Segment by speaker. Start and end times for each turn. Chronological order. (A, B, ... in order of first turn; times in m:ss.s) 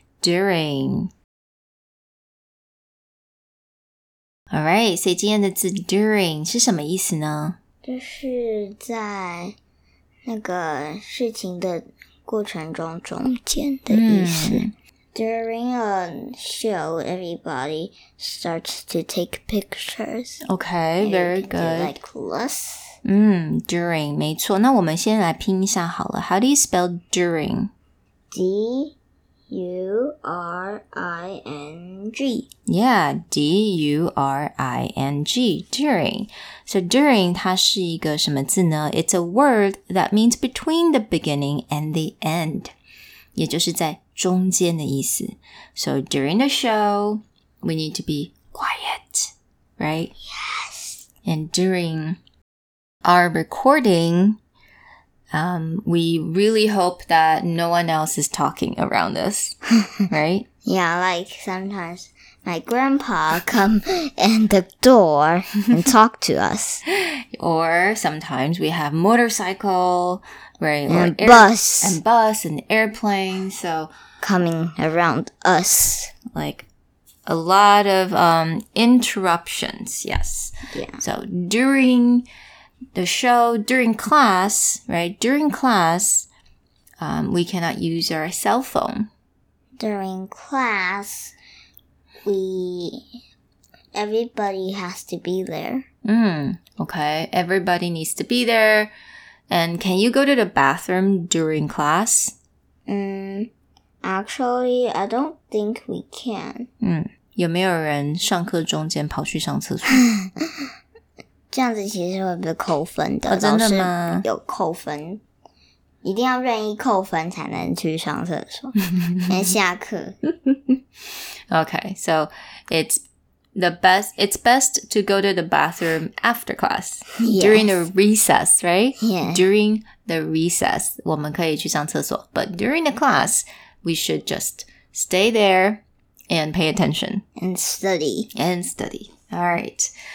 0:00.2-0:01.1 A
0:04.5-0:07.6 A
0:07.8-0:09.6 B
0:10.2-0:20.4 B
0:13.9-0:14.7 A
0:20.4-0:22.0 A
0:21.0-0:23.0 B
0:23.0-0:27.7 A
0:28.3-0:29.0 B
0:29.5-0:32.5 B
0:32.6-0:42.7 A
0:43.4-0:50.1 A
0:50.3-0:51.1 B
0:51.2-0:52.2 A
0:53.0-0:54.4 A
0:55.3-0:59.6 A
1:00.1-1:00.5 A
1:00.6-1:06.8 B
1:07.4-1:13.9 A
1:10.9-1:12.0 B
1:14.2-1:16.2 B
1:16.2-1:16.7 A
1:17.3-1:22.2 A
1:20.7-1:21.0 B
1:22.9-1:26.3 A
1:27.0-1:29.1 A
1:29.8-1:31.3 B
1:32.2-1:33.2 B
1:33.9-1:35.8 B
1:36.0-1:38.9 A
1:39.5-1:42.3 A
1:42.9-1:43.5 B
1:44.0-1:46.7 B
1:46.8-1:50.0 A
1:50.0-1:50.7 B
1:51.5-1:55.2 B
1:53.3-1:54.3 A
1:56.0-1:58.7 B
1:58.8-1:59.5 A
1:59.3-2:00.2 B
2:01.5-2:03.0 A
2:03.5-2:17.2 A
2:07.2-2:07.9 B
2:09.0-2:09.5 B
2:17.4-2:18.3 B
2:18.3-2:19.9 A